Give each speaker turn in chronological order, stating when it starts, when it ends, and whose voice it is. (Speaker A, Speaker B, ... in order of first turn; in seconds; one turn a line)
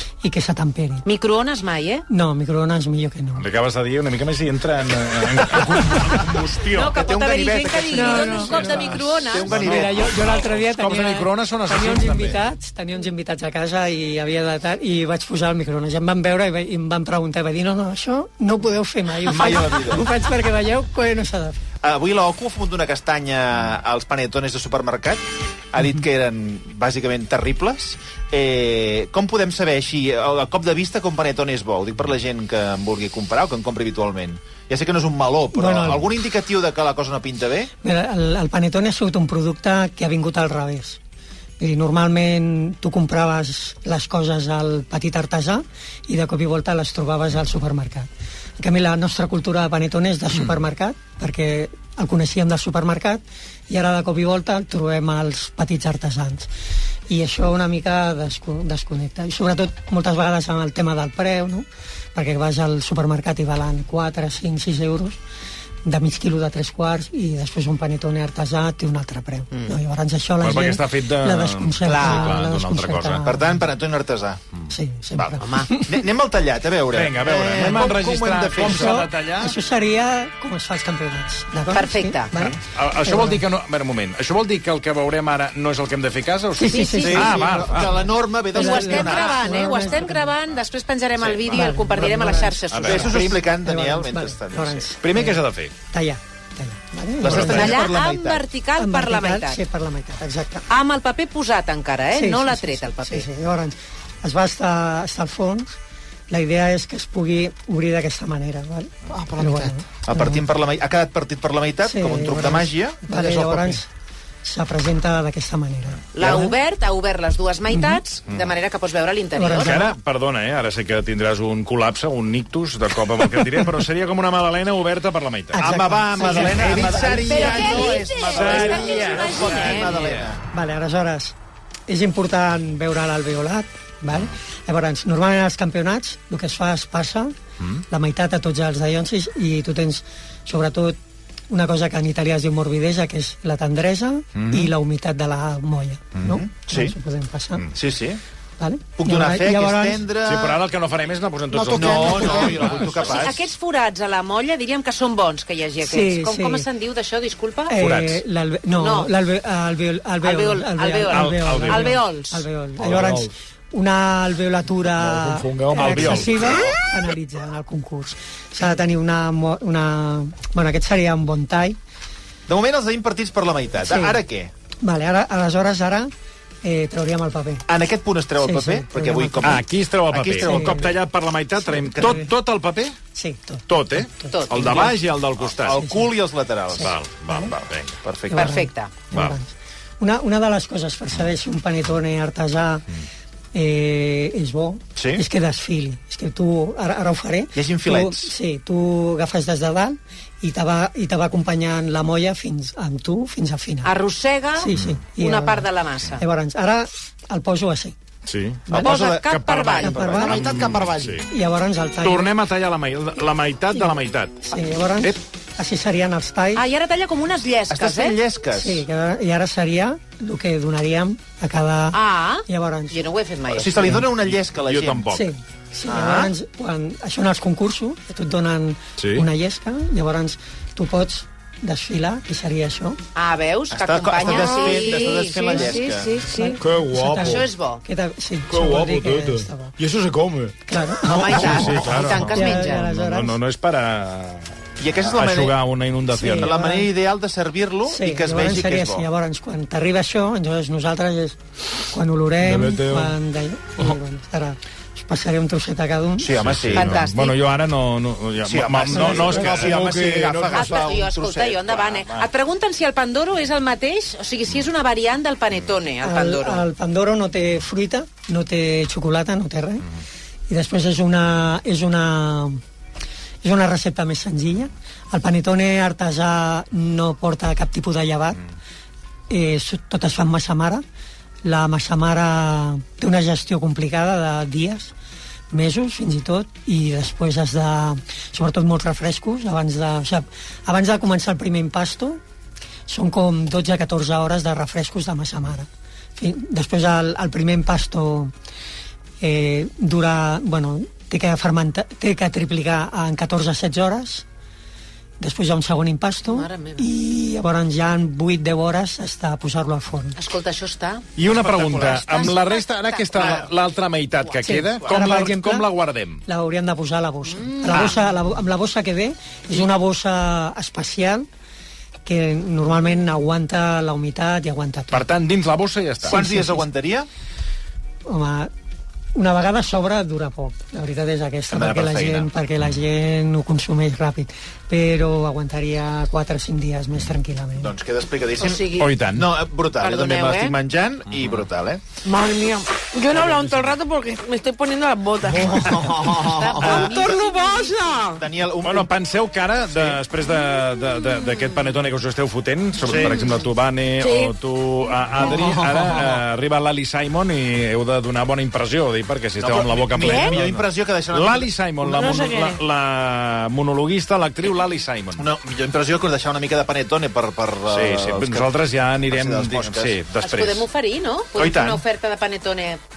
Speaker A: 0.2-1.1
Speaker B: 1.0-2.0
Speaker A: 2.1-3.5
Speaker C: 3.4-7.0
Speaker A: 5.7-6.2
Speaker B: 6.7-9.6
Speaker D: 6.9-8.6
Speaker A: 7.9-21.6
Speaker C: 8.2-12.4
Speaker D: 9.1-9.9
Speaker D: 19.2-20.1
Speaker D: 21.8-25.2
Speaker D: 25.7-37.7
Speaker A: 35.5-36.1
Speaker A: 37.8-41.0
Speaker A: 41.6-56.5
Speaker A: 57.1-65.2
Speaker A: 65.8-73.6
Speaker C: 70.4-73.2
Speaker B: 71.8-72.4
Speaker D: 73.2-74.4
Speaker A: 74.7-76.0
Speaker B: 75.4-75.7
Speaker D: 75.8-79.0
Speaker C: 76.9-79.5
Speaker A: 78.6-83.4
Speaker B: 81.7-82.3
Speaker C: 82.3-88.0
Speaker A: 86.5-87.4
Speaker B: 86.7-87.3
Speaker D: 87.0-89.5
Speaker A: 88.5-90.3
Speaker B: 88.5-93.3
Speaker D: 91.2-91.7
Speaker A: 91.5-97.8
Speaker C: 92.7-93.1
Speaker D: 92.8-94.9
Speaker C: 95.0-95.7
Speaker D: 97.2-98.5
Speaker B: 97.3-99.6
Speaker A: 98.8-100.7
Speaker B: 100.7-103.3
Speaker A: 102.1-105.7
Speaker A: 106.3-110.4
Speaker E: 109.1-109.7
Speaker D: 110.0-113.0
Speaker A: 111.8-113.9
Speaker F: 113.1-113.8
Speaker A: 114.4-116.6
Speaker B: 116.1-119.8
Speaker D: 116.2-116.5
Speaker A: 117.7-118.0
Speaker A: 119.3-120.0
Speaker C: 119.6-125.6
Speaker A: 125.5-127.8
Speaker D: 125.6-130.4
Speaker C: 126.2-127.0
Speaker B: 126.9-130.1
Speaker E: 127.1-129.6
Speaker C: 128.3-129.3
Speaker C: 129.9-130.2
Speaker A: 130.5-131.3
Speaker A: 131.9-141.0
Speaker A: 141.5-147.7
Speaker D: 146.2-146.9
Speaker D: 147.7-148.2
Speaker A: 148.6-150.1
Speaker D: 149.0-150.6
Speaker C: 150.2-153.3
Speaker D: 151.7-153.5
Speaker E: 151.7-152.3
Speaker B: 151.9-157.7
Speaker A: 152.0-152.5
Speaker A: 155.8-156.7
Speaker A: 157.7-171.8
Speaker C: 157.8-158.2
Speaker B: 158.7-159.1
Speaker B: 160.2-162.4
Speaker C: 161.1-161.9
Speaker C: 162.8-163.3
Speaker C: 165.2-166.6
Speaker D: 166.0-166.7
Speaker D: 172.5-174.5
Speaker A: 173.8-174.2
Speaker A: 174.8-176.1
Speaker A: 176.6-177.7
Speaker D: 177.7-181.0
Speaker A: 178.4-179.7
Speaker C: 179.4-182.9
Speaker A: 180.4-180.9
Speaker D: 181.7-182.2
Speaker A: 181.8-182.3
Speaker A: 183.1-184.9
Speaker C: 183.7-185.8
Speaker B: 184.3-184.9
Speaker D: 185.6-186.9
Speaker A: 185.7-186.1
Speaker A: 186.7-187.5
Speaker C: 186.8-188.0
Speaker D: 188.0-188.6
Speaker B: 188.3-188.9
Speaker A: 188.3-192.9
Speaker A: 193.5-203.9
Speaker D: 194.9-195.2
Speaker D: 197.5-198.3
Speaker B: 203.8-206.2
Speaker A: 204.6-207.9
Speaker C: 208.2-211.2
Speaker D: 208.7-211.2
Speaker B: 208.7-210.1
Speaker A: 209.8-210.6
Speaker A: 211.2-212.3
Speaker C: 212.0-214.4
Speaker A: 213.7-216.6
Speaker B: 216.5-218.2
Speaker D: 217.7-218.8
Speaker A: 218.5-223.0
Speaker B: 221.9-224.0
Speaker D: 223.5-225.1
Speaker C: 224.1-225.3
Speaker A: 225.1-233.0
Speaker D: 225.8-226.3
Speaker C: 229.0-229.2
Speaker B: 233.1-236.6
Speaker D: 233.7-236.1
Speaker A: 234.8-239.8
Speaker F: 236.6-237.5
Speaker B: 237.1-237.8
Speaker F: 238.5-240.5
Speaker A: 240.7-243.4
Speaker B: 241.0-242.9
Speaker C: 241.5-246.5
Speaker D: 244.8-245.5
Speaker A: 246.1-246.9
Speaker D: 246.3-249.1
Speaker A: 247.9-256.3
Speaker F: 252.4-253.1
Speaker D: 256.2-257.0
Speaker C: 256.3-260.6
Speaker B: 256.7-257.4
Speaker D: 258.4-262.3
Speaker A: 258.9-259.8
Speaker F: 259.7-260.8
Speaker B: 260.5-266.6
Speaker A: 266.0-269.9
Speaker A: 270.5-272.6
Speaker A: 273.4-278.4
Speaker A: 279.3-280.8
Speaker A: 281.4-284.9
Speaker A: 285.5-292.2
Speaker A: 292.9-298.3
Speaker A: 299.2-304.2
Speaker A: 305.2-310.2
Speaker B: 306.2-306.9
Speaker B: 310.1-311.0
Speaker C: 311.2-316.2
Speaker D: 311.2-312.3
Speaker B: 311.9-313.5
Speaker A: 314.4-315.7
Speaker A: 316.2-321.3
Speaker C: 317.7-318.0
Speaker A: 322.0-325.1
Speaker C: 324.9-326.2
Speaker D: 326.1-327.1
Speaker A: 326.1-326.7
Speaker A: 328.1-328.5
Speaker A: 329.1-337.7
Speaker D: 331.5-332.3
Speaker D: 337.6-341.8
Speaker B: 338.4-338.8
Speaker C: 338.8-339.2
Speaker B: 339.8-340.5
Speaker E: 342.0-348.2
Speaker D: 345.5-347.1
Speaker B: 346.0-347.7
Speaker D: 348.1-348.9
Speaker C: 348.6-365.2
Speaker D: 349.7-350.0
Speaker D: 352.8-353.2
Speaker E: 354.0-354.3
Speaker E: 355.2-355.7
Speaker D: 359.4-361.5
Speaker E: 360.0-360.3
Speaker E: 361.9-362.6
Speaker D: 365.2-370.0
Speaker C: 367.7-370.7
Speaker B: 370.2-372.8
Speaker C: 371.4-371.8